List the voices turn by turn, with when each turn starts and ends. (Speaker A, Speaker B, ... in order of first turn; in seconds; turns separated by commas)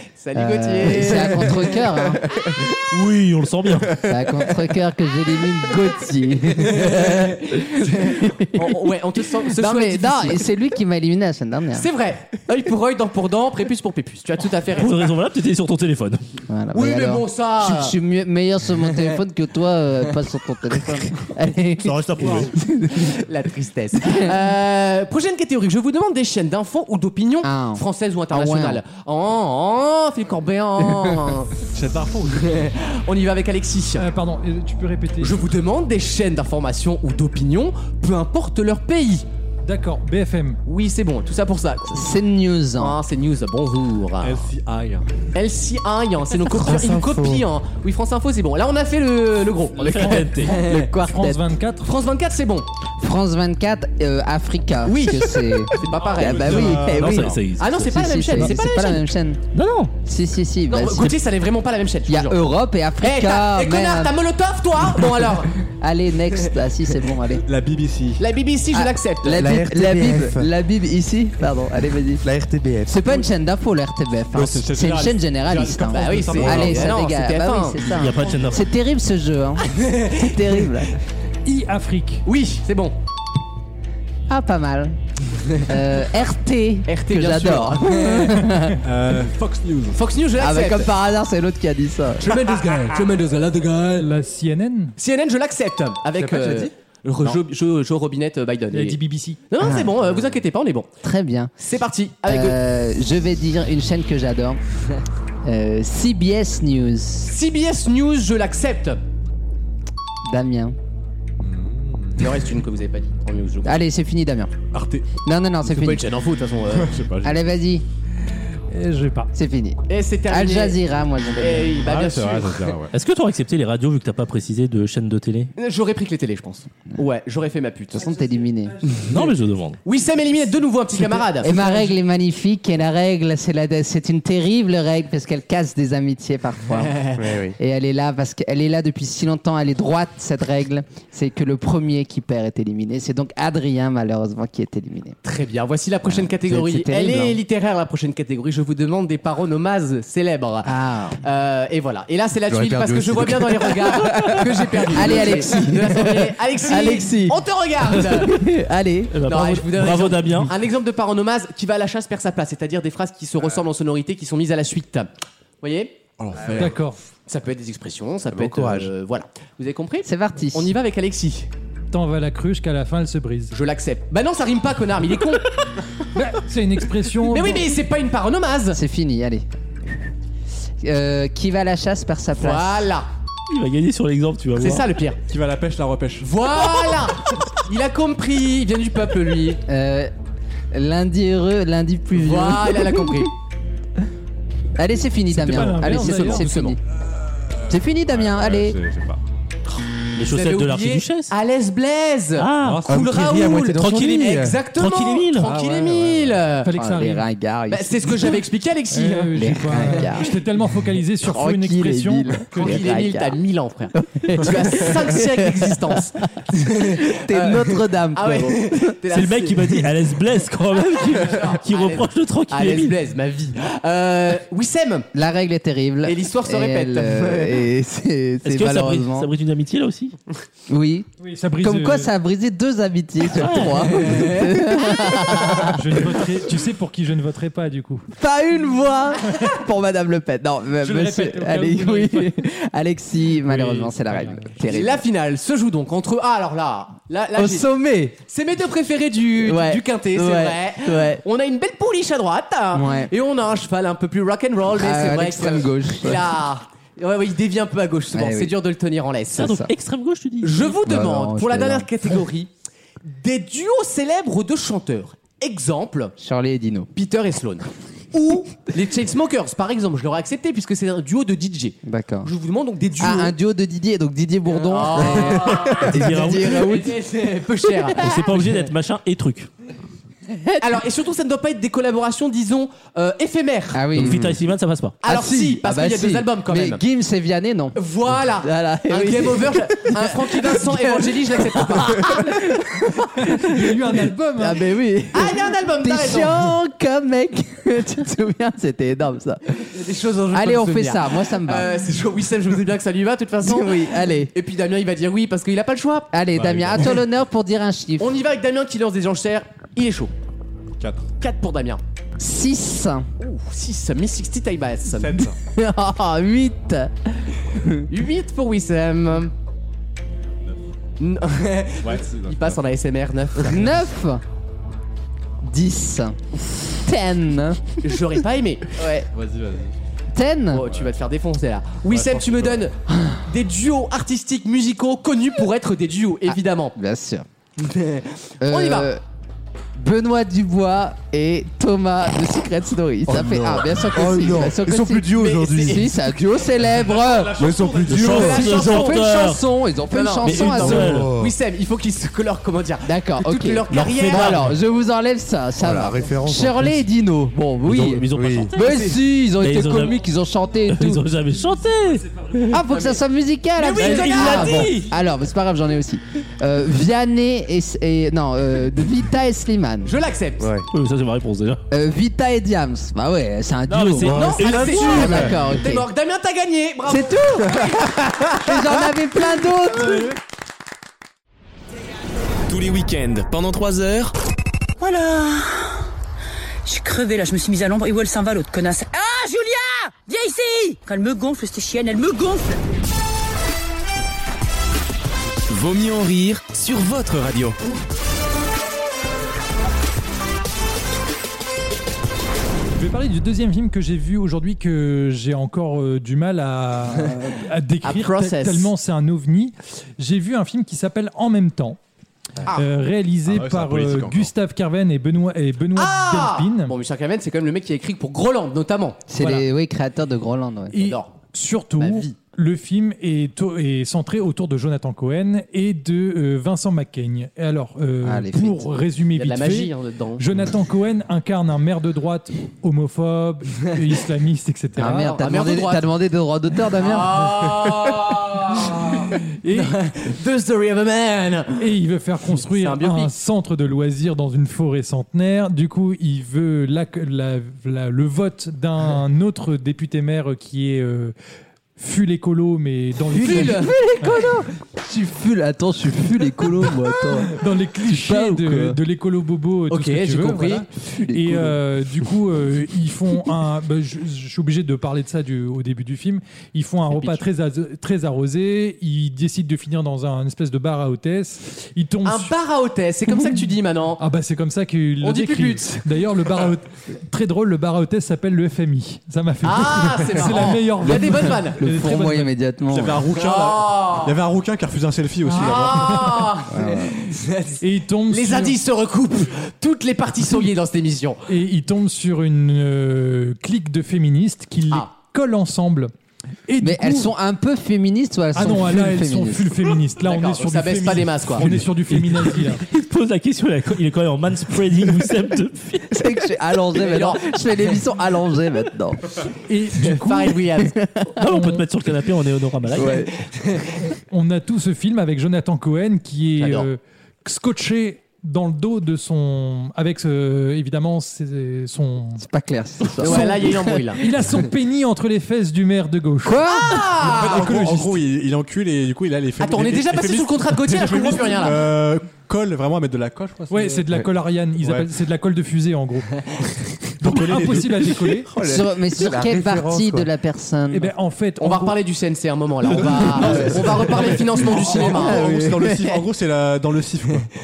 Speaker A: 0.2-2.1, Speaker B: 0.3-2.2, Speaker C: 2.6-4.0, Speaker B: 4.0-8.9, Speaker A: 6.7-10.5, Speaker B: 9.5-11.9, Speaker A: 11.8-15.0, Speaker C: 14.8-16.2, Speaker B: 16.5-23.2, Speaker A: 16.7-18.0, Speaker C: 21.8-22.5, Speaker A: 22.9-31.5, Speaker B: 27.4-28.8, Speaker D: 31.7-32.7, Speaker A: 32.4-34.1, Speaker E: 34.0-35.5, Speaker A: 35.2-39.2, Speaker E: 39.6-40.6, Speaker A: 40.7-42.1, Speaker B: 41.9-43.0, Speaker A: 42.8-44.5, Speaker D: 44.2-45.1, Speaker A: 45.3-50.8, Speaker F: 46.5-47.5, Speaker C: 49.8-50.6, Speaker E: 49.8-51.9, Speaker B: 50.5-51.4, Speaker A: 51.8-52.7, Speaker B: 53.0-59.4, Speaker A: 54.9-56.9, Speaker D: 55.9-57.4, Speaker C: 56.6-57.8, Speaker A: 57.6-58.8, Speaker C: 59.5-59.9, Speaker B: 60.0-61.2, Speaker A: 60.7-62.5, Speaker B: 62.1-64.1, Speaker A: 63.0-65.5, Speaker B: 65.6-67.4, Speaker D: 67.4-68.2, Speaker A: 68.2-69.5, Speaker B: 68.7-72.2, Speaker F: 69.4-70.5, Speaker F: 72.2-73.0, Speaker B: 72.9-81.0, Speaker D: 74.3-77.0, Speaker A: 75.9-78.0, Speaker C: 78.0-78.6, Speaker A: 79.7-80.4, Speaker E: 81.5-82.2, Speaker A: 82.2-83.0, Speaker B: 84.3-85.0, Speaker B: 85.5-88.8, Speaker A: 86.9-88.5, Speaker D: 88.8-90.0, Speaker A: 89.9-90.9, Speaker B: 90.4-92.2, Speaker A: 92.2-94.1, Speaker D: 92.3-93.1, Speaker E: 94.0-95.0, Speaker A: 95.0-100.9, Speaker F: 96.2-96.7, Speaker E: 98.7-99.4, Speaker B: 99.6-100.0, Speaker B: 101.0-101.5, Speaker A: 101.6-102.6, Speaker B: 102.2-104.6, Speaker B: 105.4-107.3, Speaker A: 107.2-109.0, Speaker B: 110.2-110.8, Speaker D: 111.4-112.5, Speaker A: 112.2-113.8, Speaker B: 113.6-114.5, Speaker D: 114.7-115.1, Speaker B: 115.2-116.0, Speaker A: 115.6-117.0, Speaker D: 116.7-117.4, Speaker B: 117.2-117.8, Speaker E: 118.7-119.3, Speaker B: 119.3-121.8, Speaker A: 119.9-120.8, Speaker A: 121.4-122.7, Speaker D: 121.8-122.9, Speaker C: 122.9-125.5, Speaker A: 125.6-128.1, Speaker B: 127.9-128.8, Speaker C: 129.0-129.8, Speaker A: 129.8-131.9, Speaker B: 131.4-137.0, Speaker A: 136.7-137.3, Speaker F: 137.2-137.6, Speaker B: 137.6-145.2, Speaker A: 145.2-158.4, Speaker B: 146.1-147.4, Speaker B: 150.6-151.2, Speaker F: 152.5-154.8, Speaker B: 154.9-159.1, Speaker C: 159.1-160.5, Speaker A: 159.2-165.1, Speaker A: 165.6-166.7, Speaker D: 166.2-166.8, Speaker E: 166.6-167.0, Speaker A: 167.3-171.5, Speaker F: 168.3-168.9, Speaker B: 170.0-170.7, Speaker E: 171.9-173.5, Speaker A: 173.5-175.5, Speaker E: 176.1-177.7, Speaker A: 177.3-178.8, Speaker B: 178.7-179.5, Speaker B: 180.8-182.9, Speaker A: 182.4-183.1, Speaker C: 183.5-184.9, Speaker A: 184.6-185.2, Speaker D: 185.3-186.3, Speaker A: 186.2-189.6, Speaker B: 189.7-190.1, Speaker B: 190.7-193.3, Speaker A: 192.2-193.3, Speaker B: 194.8-196.8, Speaker E: 195.3-196.5, Speaker A: 195.6-196.8, Speaker B: 197.7-198.8, Speaker D: 198.1-199.2, Speaker C: 200.2-201.3, Speaker A: 200.2-206.7, Speaker C: 202.4-202.9, Speaker D: 202.6-203.3, Speaker F: 202.9-204.6, Speaker C: 203.8-205.5, Speaker D: 205.4-206.6, Speaker E: 206.7-207.3, Speaker B: 206.7-208.4, Speaker A: 207.7-209.4, Speaker E: 208.9-213.0, Speaker B: 209.3-210.3, Speaker B: 211.2-213.4, Speaker A: 212.5-219.9, Speaker B: 213.9-219.0, Speaker C: 219.1-223.0, Speaker A: 220.9-225.1, Speaker B: 225.1-229.3, Speaker A: 226.0-227.6, Speaker C: 228.4-230.2, Speaker B: 230.7-236.2, Speaker E: 231.2-232.1, Speaker C: 233.3-234.4, Speaker A: 233.9-235.7, Speaker E: 235.6-238.1, Speaker B: 238.2-245.0, Speaker E: 240.8-242.3, Speaker E: 243.5-244.5, Speaker A: 244.6-247.7, Speaker B: 247.3-248.2, Speaker A: 248.2-259.5, Speaker B: 249.4-251.2, Speaker B: 252.7-253.1, Speaker B: 254.8-256.3, Speaker B: 258.1-258.6, Speaker C: 259.4-260.8, Speaker B: 259.4-259.7, Speaker A: 260.4-262.5, Speaker B: 260.8-261.9, Speaker A: 263.1-266.1, Speaker B: 266.2-266.9, Speaker A: 266.9-273.4, Speaker B: 271.8-272.3, Speaker B: 273.0-276.9, Speaker A: 274.5-278.4, Speaker C: 275.8-276.9, Speaker B: 277.9-278.4, Speaker C: 277.9-279.5, Speaker B: 280.3-280.8, Speaker A: 280.6-283.8, Speaker B: 283.7-284.3, Speaker C: 283.9-285.0, Speaker A: 285.0-286.8, Speaker B: 285.1-287.8, Speaker A: 287.8-292.3, Speaker B: 288.4-293.8, Speaker E: 293.3-294.6, Speaker B: 294.4-299.7, Speaker A: 295.1-296.4, Speaker A: 299.7-306.1, Speaker B: 300.3-301.8, Speaker B: 303.4-304.3, Speaker B: 306.1-308.1, Speaker D: 306.3-307.0, Speaker A: 308.0-310.1, Speaker D: 310.8-311.1, Speaker A: 311.2-311.8, Speaker B: 312.2-313.1, Speaker A: 313.2-315.3, Speaker D: 314.9-315.4, Speaker B: 315.4-317.9, Speaker A: 317.9-319.3, Speaker A: 321.0-323.6, Speaker D: 321.8-322.6, Speaker B: 323.4-324.2, Speaker B: 325.4-327.8, Speaker A: 327.8-329.1, Speaker D: 329.1-329.8, Speaker B: 330.1-330.7, Speaker A: 330.5-336.8, Speaker D: 330.6-331.0, Speaker D: 331.9-332.7, Speaker B: 336.3-337.3, Speaker A: 337.6-338.9, Speaker B: 338.4-339.0, Speaker B: 339.8-347.6, Speaker F: 343.1-346.0, Speaker A: 345.1-345.9, Speaker D: 346.6-348.3, Speaker F: 347.4-348.7, Speaker A: 347.9-349.1, Speaker C: 347.9-349.4, Speaker B: 348.4-351.0, Speaker A: 349.9-354.4, Speaker C: 350.2-351.1, Speaker F: 350.4-351.3, Speaker B: 352.8-361.0, Speaker C: 353.7-354.5, Speaker F: 355.6-356.8, Speaker C: 357.6-360.0, Speaker F: 358.0-358.6, Speaker C: 360.7-362.6, Speaker B: 362.5-370.0, Speaker A: 362.7-363.0, Speaker A: 363.6-364.8, Speaker C: 363.8-364.9, Speaker A: 369.8-370.5, Speaker F: 370.4-370.7, Speaker C: 370.7-371.6, Speaker B: 371.7-375.9, Speaker C: 373.7-375.3, Speaker F: 374.0-375.3, Speaker A: 374.1-377.8, Speaker B: 376.9-380.1, Speaker G: 382.5-384.1, Speaker H: 384.8-385.8, Speaker H: 386.6-392.6, Speaker G: 395.5-397.6, Speaker E: 402.8-411.8, Speaker A: 407.8-408.7, Speaker E: 412.5-416.7, Speaker D: 413.2-414.3, Speaker A: 415.8-419.0, Speaker B: 419.1-420.8, Speaker E: 419.2-419.5, Speaker E: 420.7-435.1, Speaker A: 420.8-421.1, Speaker A: 421.8-422.1, Speaker B: 428.0-428.7, Speaker A: 429.2-430.2, Speaker B: 434.8-437.6, Speaker A: 435.0-435.9, Speaker A: 436.8-441.6, Speaker E: 439.4-439.8, Speaker E: 441.6-451.1, Speaker A: 442.4-443.1, Speaker E: 451.8-454.3, Speaker B: 453.1-458.8, Speaker A: 453.2-453.8, Speaker E: 457.3-472.3, Speaker A: 459.7-460.6, Speaker B: 460.8-461.6, Speaker A: 472.1-474.0, Speaker E: 474.0-482.3, Speaker A: 475.0-475.9, Speaker A: 479.4-481.6, Speaker B: 480.9-483.1, Speaker D: 482.7-486.3, Speaker A: 483.2-484.1, Speaker E: 485.3-485.7, Speaker A: 485.3-491.2, Speaker B: 486.5-487.0, Speaker E: 487.6-488.6, Speaker E: 491.3-495.9, Speaker E: 496.5-497.1, Speaker B: 496.6-499.6, Speaker E: 498.4-502.6, Speaker A: 500.0-501.5, Speaker C: 501.9-505.9, Speaker B: 505.9-509.2, Speaker A: 506.7-507.2, Speaker E: 509.5-510.5, Speaker A: 509.9-510.8, Speaker B: 510.8-511.2, Speaker C: 511.2-513.1, Speaker E: 511.2-511.6, Speaker B: 512.8-513.1, Speaker E: 514.1-522.2, Speaker A: 516.4-516.7, Speaker B: 522.2-523.8, Speaker E: 523.0-526.5, Speaker A: 523.0-524.0, Speaker B: 526.2-526.8, Speaker A: 526.4-527.5, Speaker D: 527.0-533.9, Speaker E: 527.0-528.0, Speaker A: 529.4-531.6, Speaker E: 533.5-536.3, Speaker D: 534.6-534.9, Speaker E: 537.0-538.3, Speaker D: 537.0-537.9, Speaker F: 538.3-540.1, Speaker B: 538.4-540.9, Speaker E: 540.7-541.8, Speaker A: 541.4-545.3, Speaker D: 542.7-547.3, Speaker B: 544.9-546.0